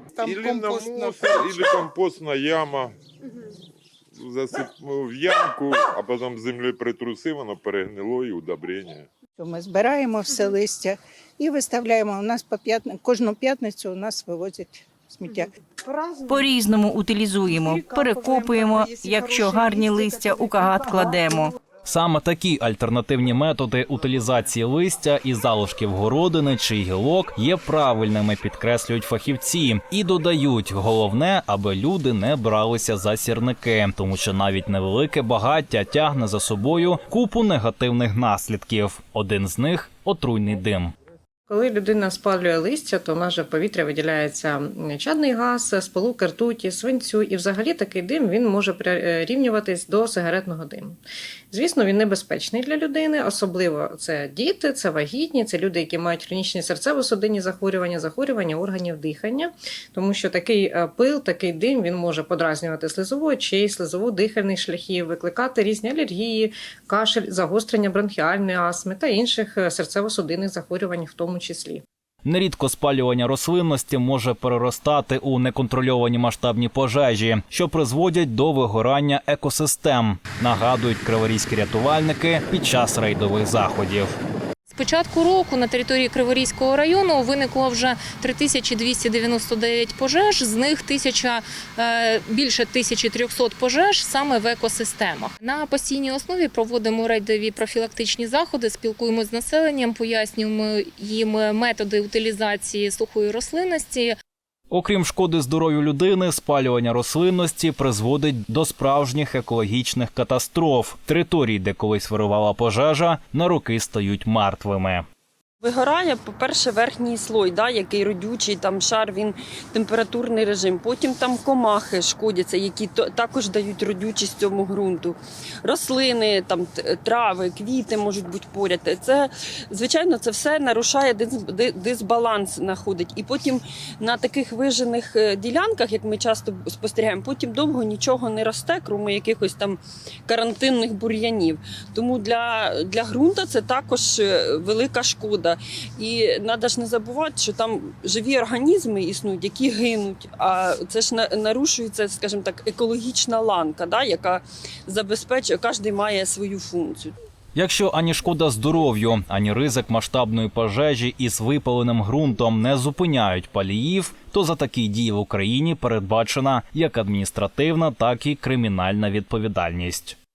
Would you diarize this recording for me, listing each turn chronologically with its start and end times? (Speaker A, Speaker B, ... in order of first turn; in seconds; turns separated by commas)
Speaker A: 0.1-1.6, Speaker B: 0.3-2.9, Speaker B: 4.2-9.1, Speaker A: 9.4-15.5, Speaker C: 16.2-21.5, Speaker D: 21.9-40.9, Speaker E: 41.5-51.0, Speaker E: 51.5-71.8, Speaker D: 72.2-84.2, Speaker F: 84.7-104.1, Speaker D: 104.7-115.0, Speaker G: 115.6-157.1, Speaker D: 157.5-170.2